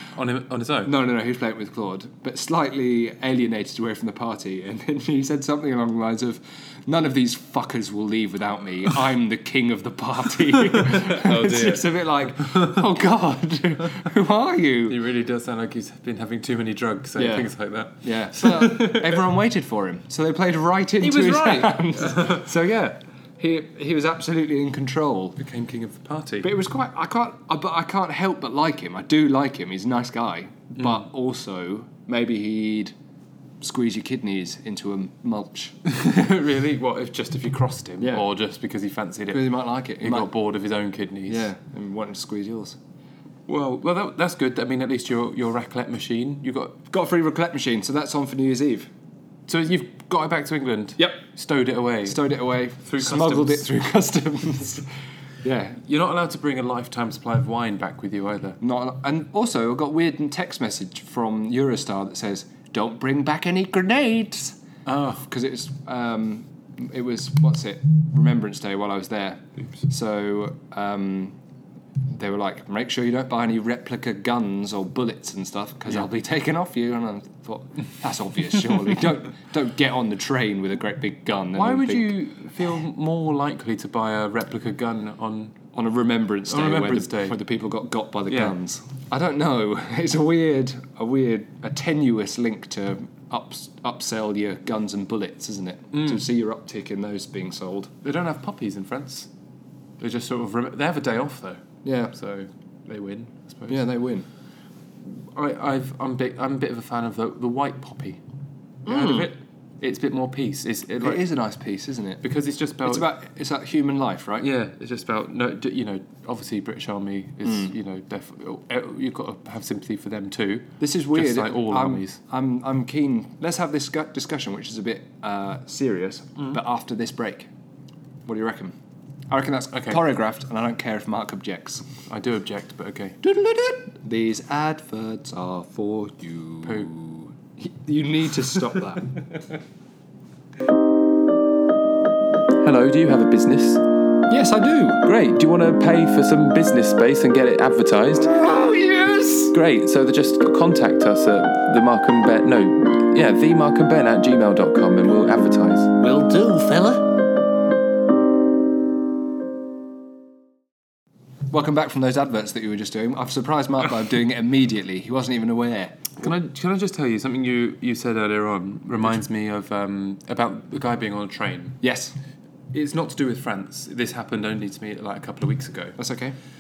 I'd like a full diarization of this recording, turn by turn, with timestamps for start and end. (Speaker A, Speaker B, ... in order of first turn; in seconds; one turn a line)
Speaker A: 0.2-0.9
Speaker B: 0.8-15.0
Speaker A: 10.8-12.8
Speaker A: 14.9-19.2
Speaker B: 17.2-17.5
Speaker B: 18.0-25.4
Speaker A: 21.0-22.5
Speaker A: 25.4-26.5
Speaker B: 26.4-32.9
Speaker B: 33.6-35.8
Speaker A: 35.9-41.5
Speaker B: 38.0-38.3
Speaker B: 39.3-40.3
Speaker B: 41.3-42.8
Speaker A: 43.5-46.8
Speaker B: 46.9-48.9
Speaker A: 49.5-52.3
Speaker B: 52.0-54.9
Speaker A: 52.8-53.7
Speaker B: 55.4-55.8
Speaker A: 55.9-58.6
Speaker B: 58.6-64.6
Speaker A: 64.9-65.2
Speaker B: 65.2-71.4
Speaker B: 72.1-82.2
Speaker A: 81.5-85.6
Speaker B: 85.7-97.9
Speaker A: 86.5-87.4
Speaker A: 88.3-88.5
Speaker A: 95.9-96.2
Speaker A: 98.0-99.3
Speaker A: 100.0-103.9
Speaker B: 101.8-102.1
Speaker B: 103.7-104.3
Speaker A: 105.1-108.2
Speaker A: 108.9-111.2
Speaker B: 108.9-109.3
Speaker B: 111.0-112.2
Speaker A: 112.2-113.1
Speaker B: 112.8-114.5
Speaker A: 114.4-122.2
Speaker B: 117.5-117.7
Speaker B: 120.8-127.5
Speaker B: 128.3-128.8
Speaker B: 129.3-131.9
Speaker A: 132.1-133.2
Speaker B: 133.2-139.3
Speaker A: 136.7-136.9
Speaker A: 142.6-143.8
Speaker B: 144.3-145.0
Speaker A: 145.0-148.3
Speaker B: 148.2-149.6
Speaker A: 149.5-156.0
Speaker B: 156.0-157.1
Speaker B: 161.5-166.2
Speaker A: 166.2-171.8
Speaker B: 171.8-172.2
Speaker A: 172.7-176.0
Speaker B: 176.0-176.4